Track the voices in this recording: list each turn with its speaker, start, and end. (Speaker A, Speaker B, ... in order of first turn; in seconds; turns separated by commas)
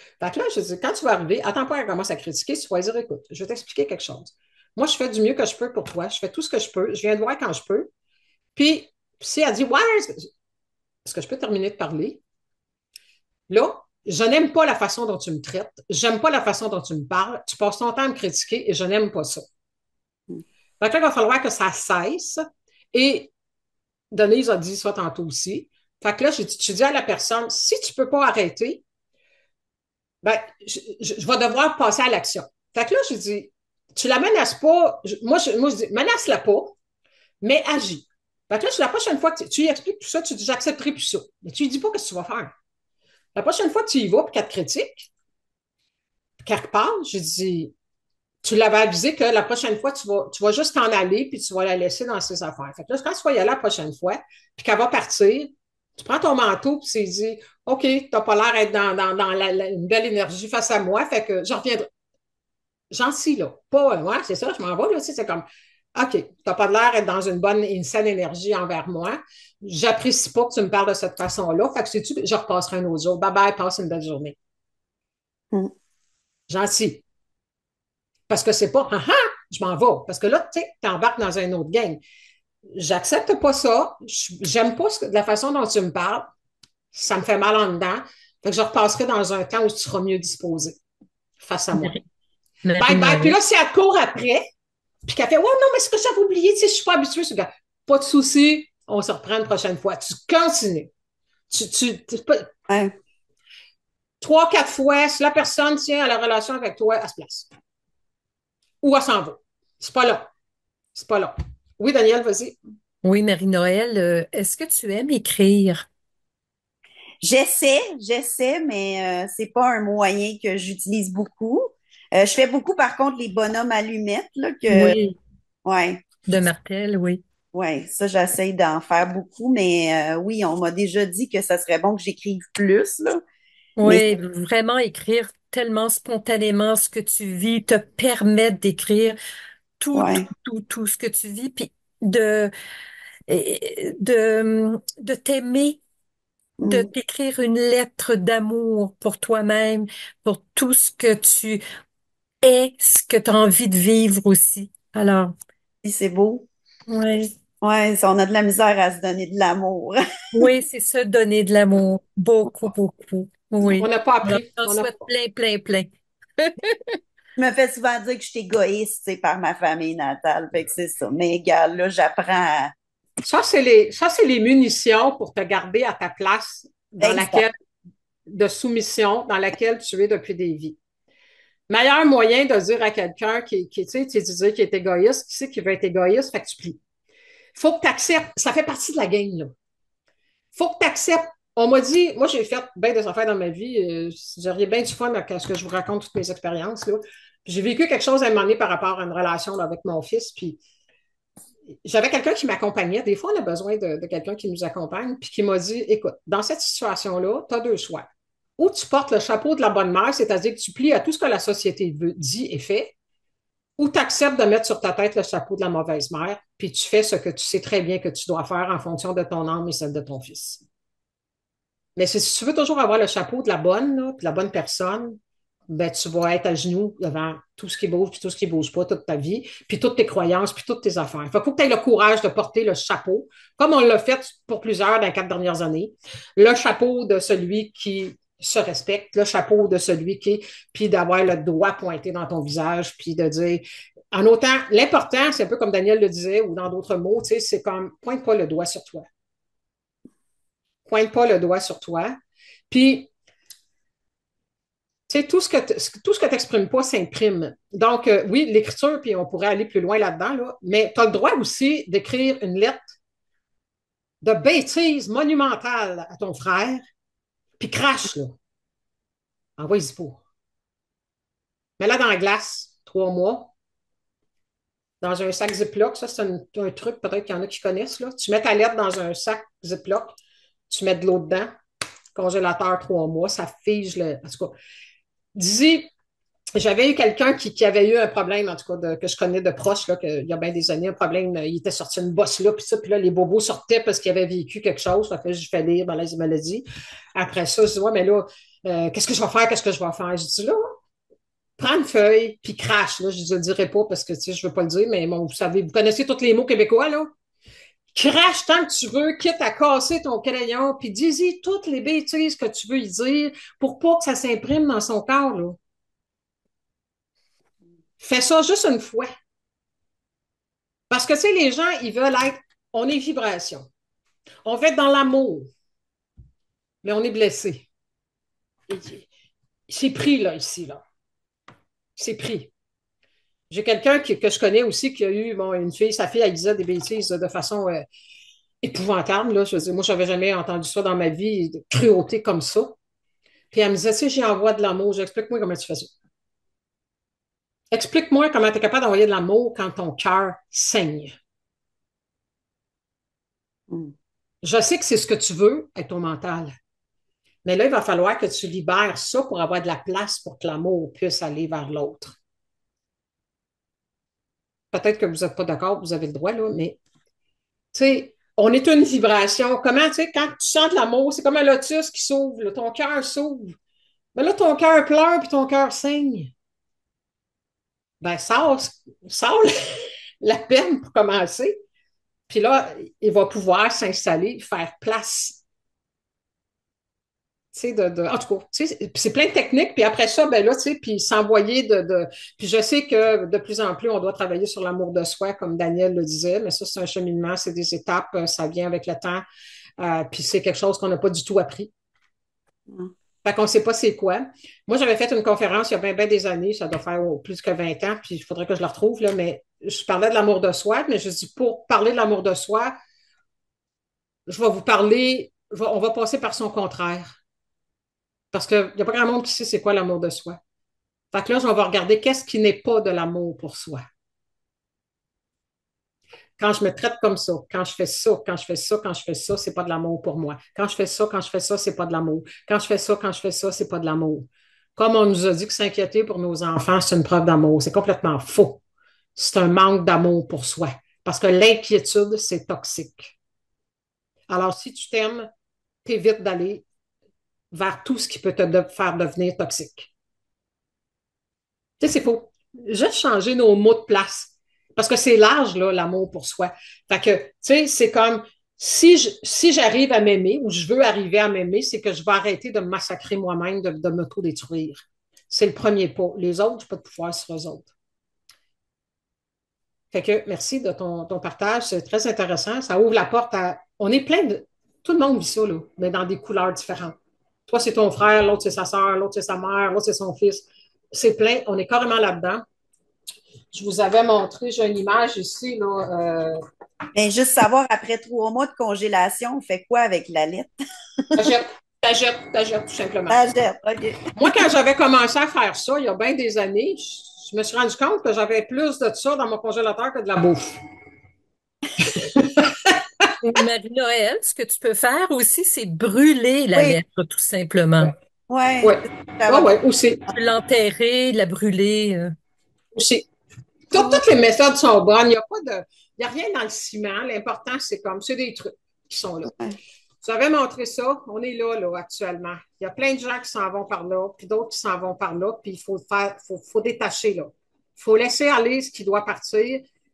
Speaker A: 0.2-7.9, Speaker A: 8.5-10.3, Speaker A: 11.0-12.2, Speaker A: 13.5-19.5, Speaker A: 20.8-23.3, Speaker A: 24.1-28.8, Speaker A: 30.2-36.7, Speaker A: 37.4-42.5, Speaker A: 43.3-45.1, Speaker A: 46.4-47.7, Speaker A: 48.4-61.9, Speaker A: 62.9-74.3, Speaker A: 76.5-77.0, Speaker A: 78.3-82.0, Speaker A: 82.7-86.3, Speaker A: 86.9-90.8, Speaker A: 91.4-92.0, Speaker B: 92.6-93.3, Speaker A: 92.8-94.5, Speaker A: 95.1-100.9, Speaker A: 101.5-102.5, Speaker C: 102.7-102.9, Speaker A: 104.2-107.5, Speaker A: 108.8-110.2, Speaker A: 110.9-112.6, Speaker B: 113.0-115.8, Speaker C: 117.2-125.0, Speaker B: 124.7-125.2, Speaker C: 125.6-126.0, Speaker B: 126.3-127.2, Speaker C: 127.5-133.2, Speaker B: 133.8-139.2, Speaker C: 133.8-134.1, Speaker B: 139.8-142.5, Speaker C: 139.9-140.3, Speaker B: 143.3-145.8, Speaker C: 146.6-146.9, Speaker B: 146.6-151.6, Speaker B: 152.4-155.3, Speaker C: 155.8-156.5, Speaker B: 156.9-157.3, Speaker C: 157.6-160.0, Speaker B: 160.3-166.9, Speaker A: 163.7-165.0, Speaker C: 167.4-172.7, Speaker A: 173.2-177.5, Speaker C: 177.0-177.4, Speaker A: 178.3-180.8, Speaker A: 181.7-186.8, Speaker A: 187.6-189.5, Speaker A: 190.5-200.6, Speaker A: 201.8-212.9, Speaker A: 213.8-220.6, Speaker A: 222.0-249.1, Speaker A: 250.9-252.2, Speaker A: 252.7-253.1, Speaker A: 255.1-262.9, Speaker A: 264.2-266.8, Speaker A: 267.6-268.4, Speaker A: 269.6-270.2, Speaker A: 271.8-273.5, Speaker A: 275.0-280.1, Speaker A: 280.7-281.5, Speaker A: 282.1-284.5, Speaker A: 285.3-285.9, Speaker A: 286.5-300.7, Speaker A: 301.6-307.1, Speaker A: 307.9-315.6, Speaker A: 318.0-319.1, Speaker A: 320.9-323.7, Speaker A: 324.4-325.5, Speaker A: 326.8-327.7, Speaker A: 328.7-329.1, Speaker A: 329.7-330.8, Speaker A: 332.0-332.5, Speaker A: 333.5-337.9, Speaker A: 338.6-342.8, Speaker A: 343.5-345.9, Speaker A: 347.7-351.1, Speaker C: 353.7-353.9, Speaker A: 354.4-356.6, Speaker A: 357.4-362.1, Speaker A: 364.7-366.8, Speaker A: 367.7-373.6, Speaker A: 374.1-376.3, Speaker A: 378.0-381.6, Speaker A: 382.3-385.4, Speaker A: 387.5-399.2, Speaker A: 399.8-401.7, Speaker A: 403.2-412.8, Speaker A: 414.3-417.1, Speaker A: 418.3-420.4, Speaker A: 421.1-423.9, Speaker A: 426.4-438.6, Speaker A: 439.1-443.1, Speaker A: 444.3-445.3, Speaker A: 445.8-446.6, Speaker A: 447.5-449.9, Speaker A: 451.8-467.7, Speaker A: 469.9-482.4, Speaker A: 483.5-486.4, Speaker C: 486.9-490.5, Speaker A: 491.1-493.2, Speaker C: 493.1-494.3, Speaker A: 494.1-500.5, Speaker A: 501.9-502.3, Speaker B: 503.2-507.9, Speaker C: 506.5-506.8, Speaker C: 508.3-509.5, Speaker A: 508.6-510.1, Speaker B: 510.1-512.1, Speaker A: 512.7-513.1, Speaker A: 513.7-519.3, Speaker C: 513.7-514.0, Speaker C: 519.2-519.6, Speaker A: 520.0-529.6